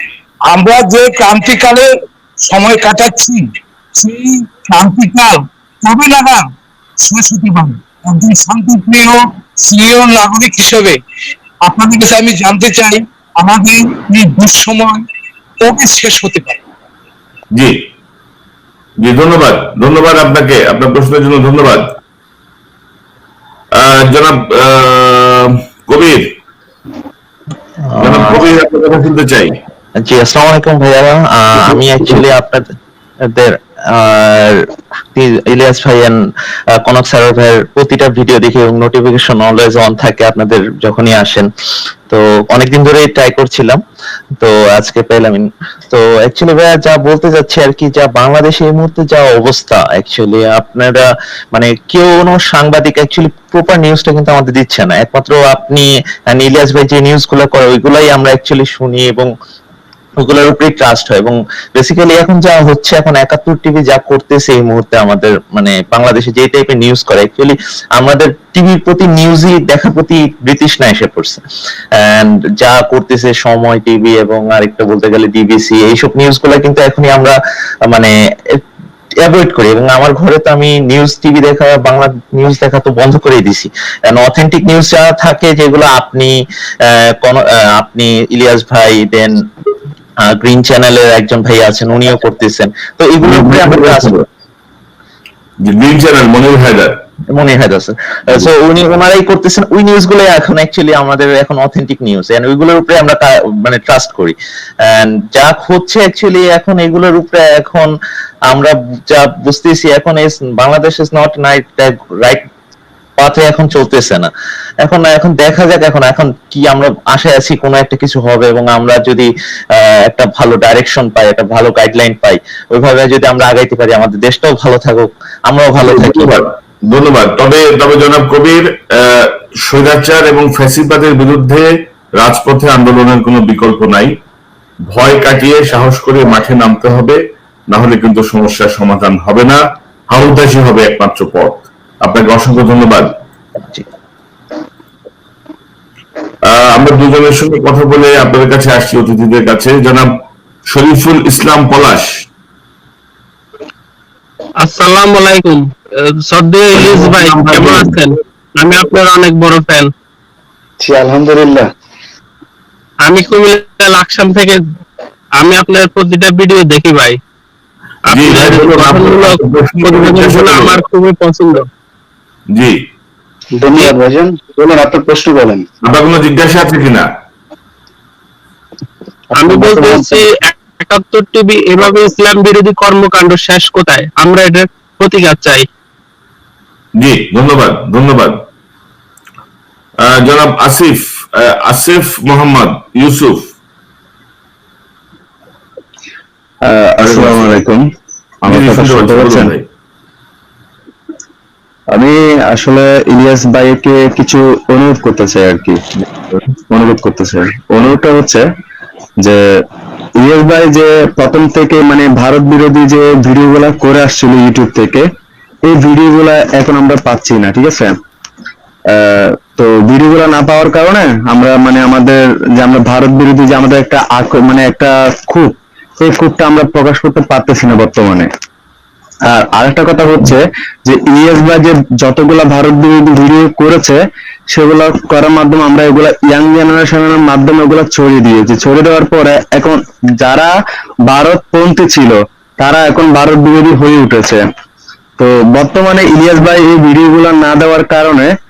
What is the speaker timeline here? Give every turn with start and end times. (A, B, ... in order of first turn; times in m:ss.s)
0:00.4-0:01.9 A
0:02.4-0:03.4 A
0:04.0-0:06.5 A
0:07.0-0:11.0 A
0:11.6-0:15.0 A
0:15.6-0:16.6 A
0:19.0-0:21.8 B
0:23.8-0:26.2 B
0:27.9-0:28.5 C
0:28.0-0:29.5 B
0:30.0-0:32.6 C
0:33.3-0:34.6 C
0:35.1-0:36.2 C
0:36.8-0:41.5 C
0:42.1-0:43.8 C
0:44.4-0:59.3 C
1:00.2-1:11.4 C
1:12.0-1:18.6 C
1:19.2-1:29.4 C
1:30.2-1:34.1 C
1:33.2-1:34.2 B
1:35.6-1:36.9 B
1:37.3-1:47.9 C
1:48.5-1:52.4 C
1:53.2-1:54.3 C
1:54.8-2:06.4 C
2:05.8-2:14.1 B
2:14.9-2:17.2 B
2:17.7-2:19.6 B
2:20.1-2:23.1 B
2:26.5-2:30.1 B
2:30.7-2:32.1 B
2:34.6-2:39.9 D
2:36.7-2:38.0 B
2:40.8-2:41.7 E
2:43.0-2:44.6 D
2:45.3-2:47.2 D
2:48.1-2:51.7 D
2:48.1-2:50.8 B
2:53.5-2:55.6 E
2:55.8-2:57.0 B
2:59.3-3:00.2 E
2:59.4-3:05.7 D
3:07.0-3:08.4 B
3:10.0-3:13.5 B
3:16.6-3:17.8 F
3:17.0-3:17.5 B
3:18.4-3:19.5 F
3:18.5-3:19.6 B
3:21.9-3:25.8 F
3:26.7-3:28.4 F
3:30.2-3:35.0 F
3:35.6-3:38.0 F
3:38.9-3:48.3 F
3:49.3-3:54.0 F
3:54.5-4:00.5 F
4:01.0-4:04.4 F
4:05.2-4:08.3 F